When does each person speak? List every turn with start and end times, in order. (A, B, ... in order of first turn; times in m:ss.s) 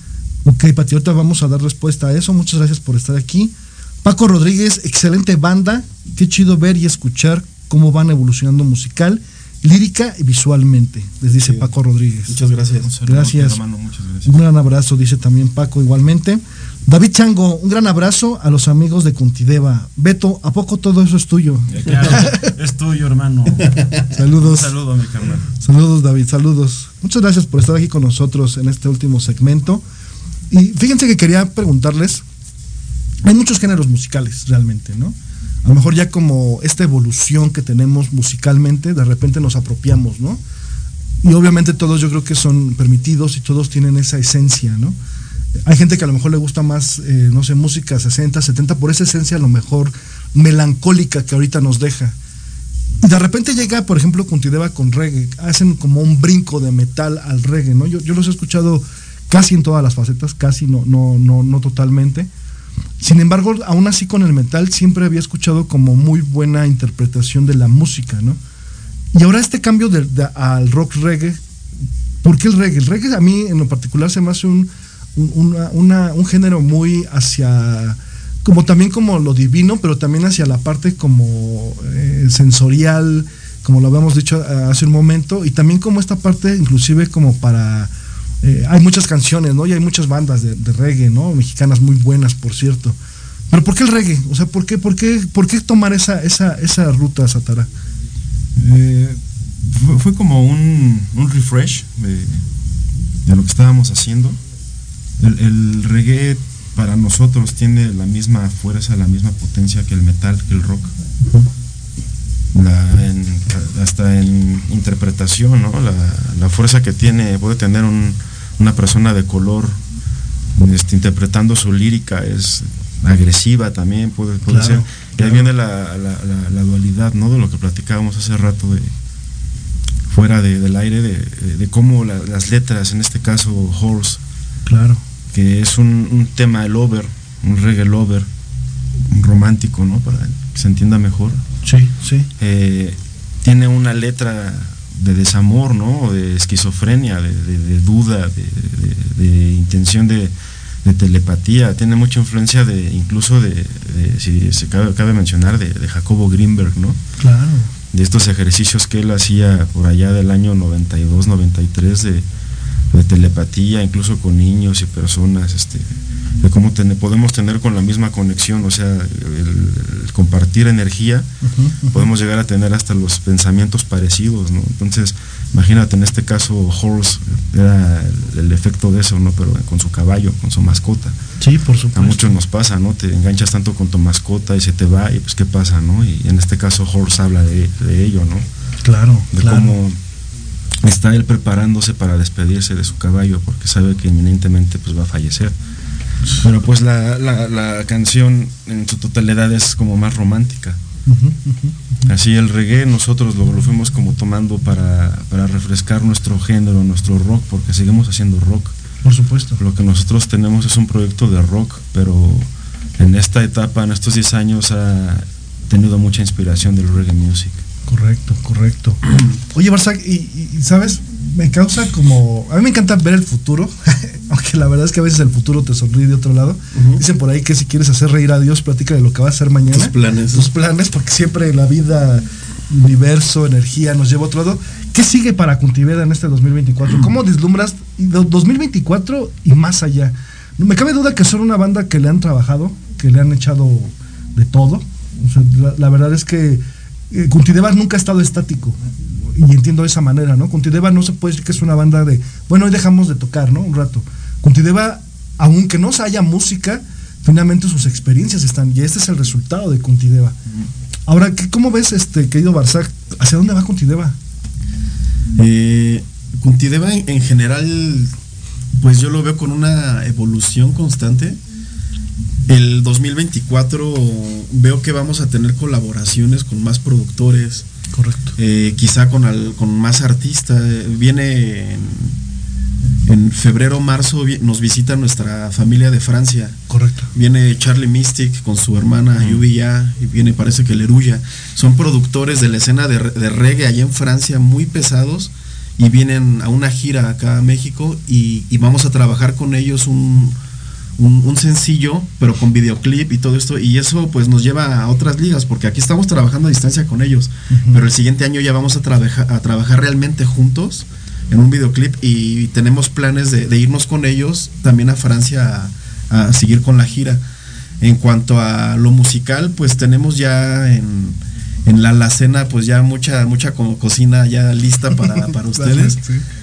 0:00.4-0:12.4 A
0:12.3-0:12.9 B
0:12.8-0:14.4 C
0:13.0-0:13.6 A
0:14.2-0:22.5 A
0:21.7-0:25.5 C
0:24.1-0:24.8 A
0:25.5-0:29.8 A
0:30.5-0:32.2 A
0:33.2-0:40.4 A
0:41.2-0:45.0 A
0:45.7-0:52.2 A
0:53.0-1:02.3 A
1:03.0-1:08.4 A
1:09.1-1:11.4 A
1:12.2-1:27.9 A
1:28.4-1:33.0 A
1:33.5-1:37.7 A
1:38.6-1:39.1 C
1:39.7-1:42.4 C
1:43.2-1:44.4 C
1:45.2-1:50.9 C
1:52.5-1:59.8 C
2:00.6-2:08.9 C
2:04.5-2:05.5 A
2:10.1-2:14.2 C
2:14.7-2:15.0 A
2:15.3-2:18.3 C
2:19.1-2:21.4 C
2:21.6-2:22.3 A
2:22.4-2:37.0 C
2:37.2-2:37.7 A
2:37.9-2:42.3 C
2:42.9-2:51.3 C
2:51.4-2:52.1 A
2:51.9-3:01.2 C
3:01.4-3:02.4 A
3:01.9-3:08.5 C
3:08.8-3:09.8 A
3:09.3-3:10.0 C
3:10.8-3:15.6 C
3:16.4-3:20.8 C
3:21.1-3:22.1 A
3:22.1-3:28.8 C
3:29.0-3:29.6 A
3:29.6-3:37.6 C
3:37.9-3:39.0 A
3:39.5-4:08.8 A
3:46.8-3:47.0 B
3:49.7-3:50.5 B
4:09.3-4:20.4 A
4:21.1-4:24.2 A
4:25.4-4:28.1 B
4:28.8-4:31.4 B
4:32.5-4:37.6 B
4:37.9-4:38.4 A
4:38.4-4:42.2 B
4:43.1-4:46.6 B
4:46.7-4:47.1 A
4:47.1-5:00.4 B
5:01.0-5:17.2 B
5:07.5-5:07.9 A
5:17.8-5:26.0 B
5:25.0-5:26.2 A